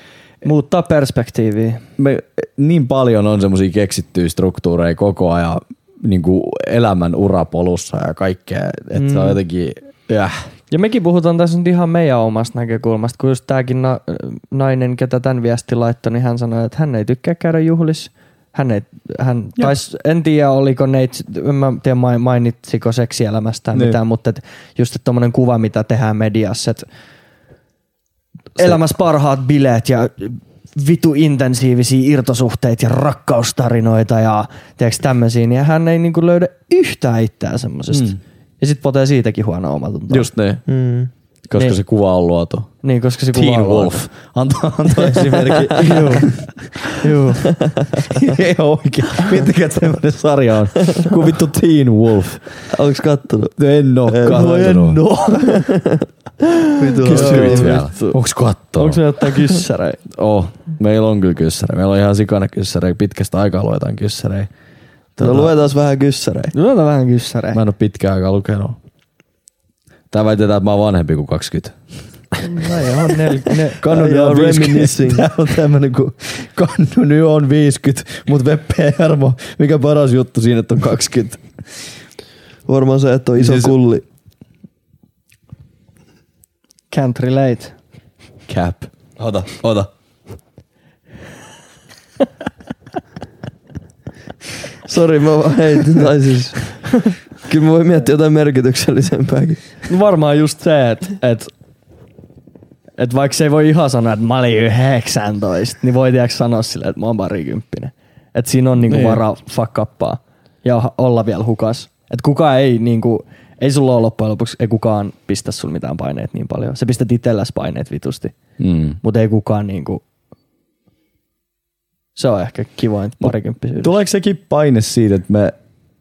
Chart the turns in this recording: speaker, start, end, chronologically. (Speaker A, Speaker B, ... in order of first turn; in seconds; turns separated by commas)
Speaker A: 0.4-1.8, Speaker B: 2.0-10.5, Speaker A: 8.9-9.4, Speaker A: 10.7-26.9, Speaker B: 23.7-24.0, Speaker A: 28.6-40.3, Speaker B: 37.9-38.2, Speaker B: 40.1-40.6, Speaker C: 40.7-41.1, Speaker B: 41.5-42.7, Speaker A: 42.8-44.0, Speaker B: 43.3-46.4, Speaker A: 45.8-46.4, Speaker A: 46.9-47.6, Speaker C: 47.6-48.2, Speaker B: 48.1-52.4, Speaker C: 52.7-56.1, Speaker B: 53.6-55.0, Speaker C: 56.7-57.9, Speaker A: 57.0-58.2, Speaker B: 57.0-59.0, Speaker A: 58.8-60.0, Speaker B: 60.1-64.5, Speaker B: 65.2-65.5, Speaker C: 65.2-66.5, Speaker A: 66.5-67.6, Speaker B: 67.5-68.8, Speaker B: 70.1-71.8, Speaker A: 72.4-73.8, Speaker B: 73.8-81.4, Speaker C: 73.8-75.2, Speaker C: 82.7-84.0, Speaker B: 83.4-83.7, Speaker A: 86.9-87.7, Speaker B: 88.5-89.9, Speaker C: 94.8-96.9, Speaker C: 97.4-99.6, Speaker A: 99.9-101.5, Speaker A: 103.0-118.3, Speaker B: 108.9-109.2, Speaker B: 118.6-119.0, Speaker A: 119.0-120.0, Speaker A: 122.2-124.0, Speaker B: 123.2-125.5